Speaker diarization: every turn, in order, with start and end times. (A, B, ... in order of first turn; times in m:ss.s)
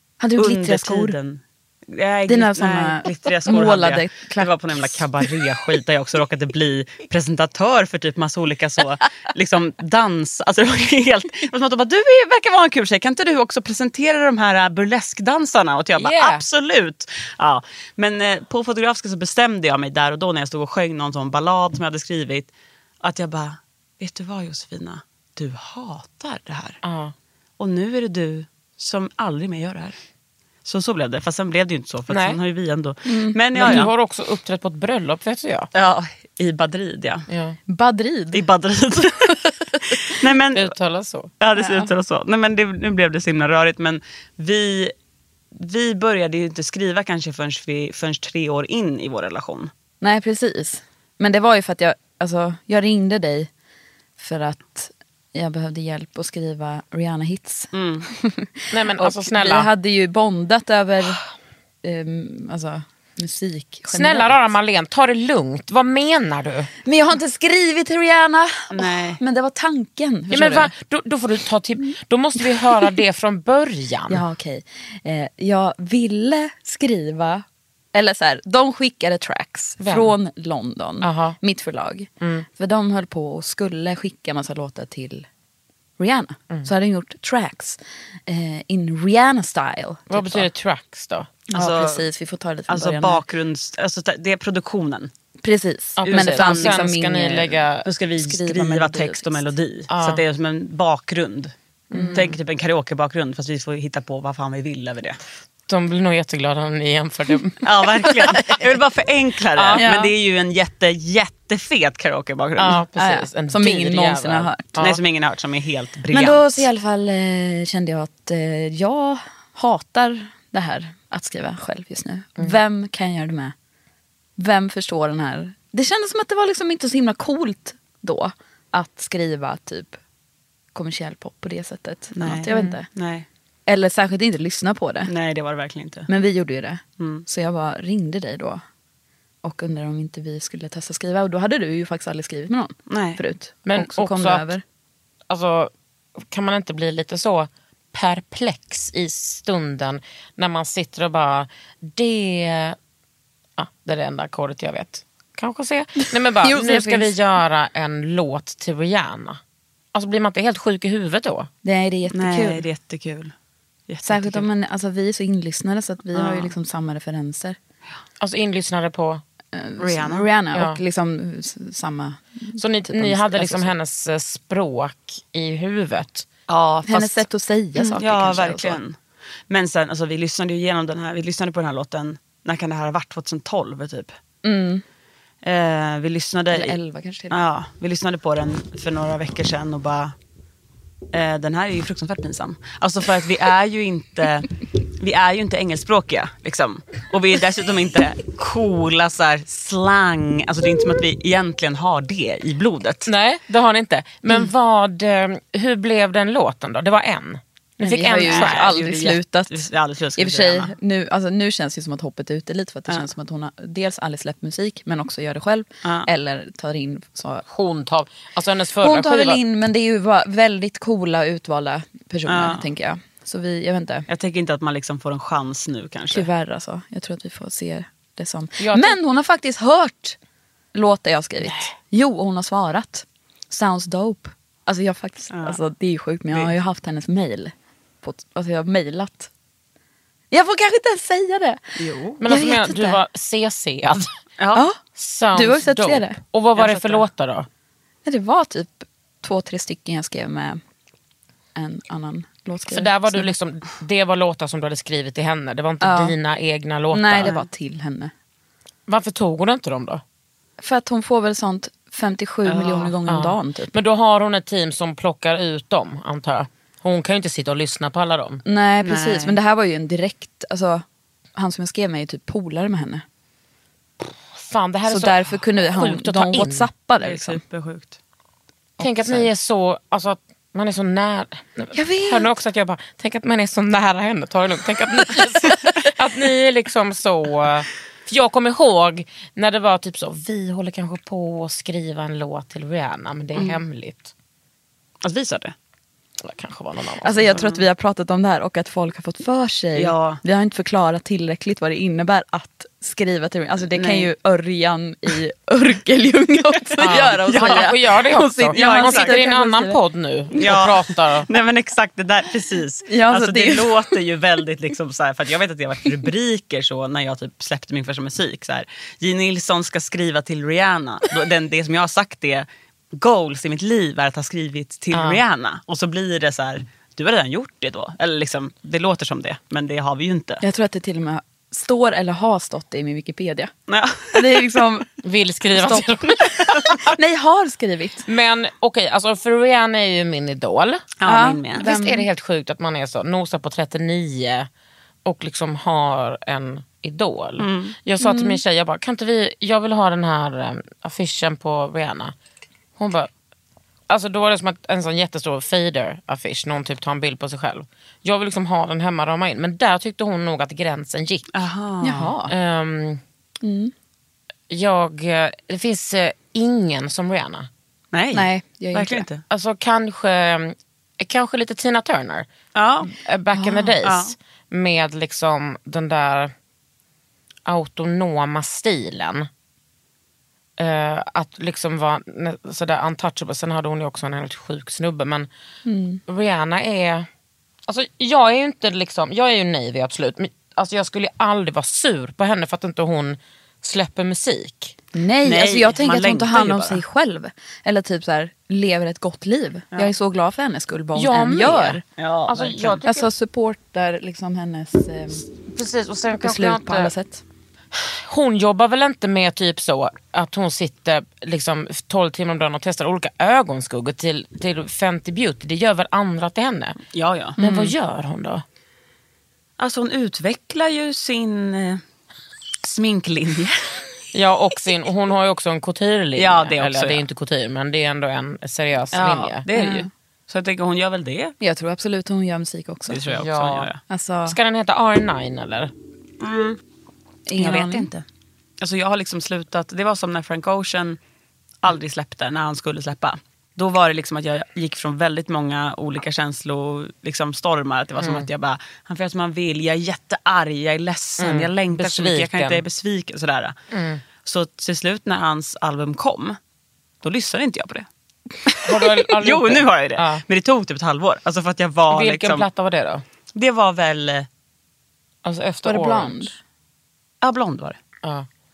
0:00.2-0:01.2 A
0:00.4-0:22.5 B
0:02.3-0:04.5 A
0:16.0-0:16.4 C
0:23.0-0:26.8 B
0:26.8-0:27.1 C
0:27.6-0:30.0 B
0:30.6-0:33.9 B
0:32.1-0:32.4 C
0:33.1-0:33.8 A
0:33.6-0:35.7 C
0:35.7-0:37.3 B
0:37.3-0:37.6 C
0:37.7-0:38.4 A
0:38.3-0:40.7 B
0:40.5-0:41.3 C
0:41.4-0:44.9 B
0:41.6-0:41.9 A
0:45.5-0:49.7 B
0:50.0-0:53.5 A
0:54.2-1:01.2 A
0:57.7-0:58.1 B
0:58.7-0:59.7 C
1:01.8-1:04.4 A
1:03.9-1:06.7 C
1:06.9-1:10.7 A
1:08.7-1:09.2 B
1:10.3-1:14.2 C
1:14.1-1:25.3 A
1:19.8-1:20.2 C
1:21.0-1:21.4 C
1:22.2-1:22.5 C
1:26.0-1:30.5 A
1:30.1-1:31.3 C
1:31.5-1:32.0 B
1:31.5-1:33.2 A
1:32.7-1:35.1 B
1:35.4-1:37.6 A
1:36.0-1:37.9 C
1:36.0-1:36.8 B
1:37.8-1:41.5 B
1:38.2-1:39.5 A
1:39.9-1:40.2 C
1:41.9-1:42.3 A
1:41.9-1:42.3 C
1:42.1-1:45.2 B
1:45.7-1:48.6 C
1:47.6-1:52.8 B
1:49.6-1:49.8 C
1:49.8-1:50.1 A
1:52.6-1:55.0 C
1:53.0-1:54.8 A
1:54.8-1:56.7 B
1:56.1-2:03.5 A
2:04.4-2:10.0 A
2:10.7-2:12.9 A
2:12.2-2:13.3 B
2:12.5-2:12.8 C
2:13.7-2:15.1 A
2:15.1-2:16.1 B
2:16.1-2:18.6 A
2:17.0-2:17.2 B
2:19.4-2:24.6 A
2:22.9-2:23.2 B
2:23.6-2:24.5 C
2:25.3-2:32.8 C
2:33.6-2:39.4 C
2:36.4-2:37.2 A
2:39.9-2:41.5 C
2:41.6-2:42.6 A
2:42.1-2:43.3 B
2:43.9-2:44.5 B
2:44.0-2:47.6 A
2:46.2-2:46.5 B
2:48.2-2:49.2 C
2:49.5-2:53.7 A
2:49.8-2:50.3 B
2:50.5-2:50.8 C
2:52.6-2:56.3 C
2:56.5-2:57.3 B
2:56.9-2:58.8 A
2:57.8-2:59.0 B
2:59.5-3:04.1 B
3:04.4-3:04.8 A
3:05.4-3:06.8 B
3:06.5-3:07.4 A
3:07.3-3:10.1 B
3:11.1-3:23.1 B
3:23.1-3:28.7 C
3:27.8-3:29.7 A
3:28.3-3:30.7 B
3:30.2-3:37.4 A
3:35.8-3:36.1 B
3:37.5-3:39.4 C
3:38.8-3:44.0 A
3:42.3-3:42.6 B
3:44.1-3:46.3 B
3:46.1-3:50.2 A
3:48.6-3:49.0 C
3:50.7-3:59.3 A
3:51.4-3:51.7 C
3:55.3-3:55.6 B
4:00.3-4:03.0 A
4:01.8-4:02.2 B
4:02.2-4:04.1 C
4:04.4-4:04.6 B
4:05.0-4:07.5 C
4:05.3-4:06.2 A
4:06.6-4:07.0 B
4:08.0-4:10.6 A
4:11.6-4:13.3 A
4:12.7-4:17.3 C
4:15.8-4:16.2 A
4:16.9-4:18.1 A
4:18.9-4:20.0 C
4:20.6-4:23.7 A
4:22.5-4:22.9 B
4:23.1-4:28.4 C
4:28.4-4:30.8 A
4:28.8-4:29.4 B
4:31.4-4:33.0 A
4:34.0-4:36.7 C
4:34.9-4:37.4 A
4:37.0-4:38.0 B
4:38.8-4:54.1 C
4:38.8-4:39.2 B
4:41.7-4:42.4 A
4:55.0-4:55.5 B
4:56.2-4:57.4 C
4:57.0-5:09.8 A
4:57.4-4:57.6 B
4:59.8-5:00.2 B
5:03.7-5:04.1 B
5:06.8-5:11.3 C
5:06.8-5:07.7 B
5:08.5-5:09.2 B
5:10.4-5:30.4 B
5:12.9-5:13.9 A
5:24.9-5:25.2 C
5:30.4-5:33.5 A
5:33.7-5:34.6 B
5:34.1-5:34.9 A
5:35.0-5:36.7 C
5:35.6-5:36.1 A
5:36.4-5:36.7 B
5:36.6-5:38.0 A
5:38.1-5:40.9 C
5:41.0-5:41.7 B
5:41.0-5:42.1 A
5:41.6-5:44.5 C
5:45.0-5:52.1 C
5:47.4-5:47.8 B
5:48.0-5:48.4 A
5:52.8-5:53.1 C
5:53.9-6:01.3 C
6:01.3-6:02.1 B
6:01.8-6:02.3 A
6:02.2-6:03.0 C
6:03.4-6:03.7 A
6:04.5-6:07.5 C
6:07.9-6:09.2 B
6:08.1-6:09.0 A
6:09.3-6:12.3 C
6:12.6-6:12.9 B
6:12.8-6:16.3 C
6:13.4-6:13.8 A
6:13.8-6:14.1 B
6:17.5-6:19.3 C
6:20.6-6:25.3 C
6:25.6-6:26.0 A
6:26.1-6:27.1 C
6:27.7-6:34.8 C
6:34.9-6:41.8 A
6:35.2-6:36.8 B
6:41.0-6:43.1 C
6:42.0-6:42.8 B
6:42.8-6:45.2 A
6:45.5-6:46.9 C
6:46.2-6:47.2 A
6:47.7-6:56.8 C
6:56.9-6:57.4 B
6:57.4-6:58.4 C
6:59.6-7:01.8 B
7:02.6-7:03.8 B
7:04.1-7:09.4 C
7:06.2-7:07.0 B
7:08.9-7:11.3 B
7:09.6-7:09.9 A
7:11.4-7:13.0 A
7:12.9-7:13.8 B
7:13.1-7:13.7 C
7:13.9-7:14.4 A
7:14.3-7:15.7 C
7:16.2-7:16.6 B
7:17.3-7:17.9 A
7:17.4-7:18.0 B
7:18.6-7:21.0 B
7:21.6-7:33.6 B
7:28.0-7:28.3 C
7:31.2-7:32.6 C
7:33.7-7:34.0 C
7:34.2-7:36.4 B
7:37.0-7:37.9 B
7:38.5-7:42.5 B
7:38.6-7:40.2 C
7:41.9-7:43.0 C
7:43.4-7:44.3 B
7:45.2-7:46.3 C
7:45.6-7:46.4 A
7:47.2-7:47.8 B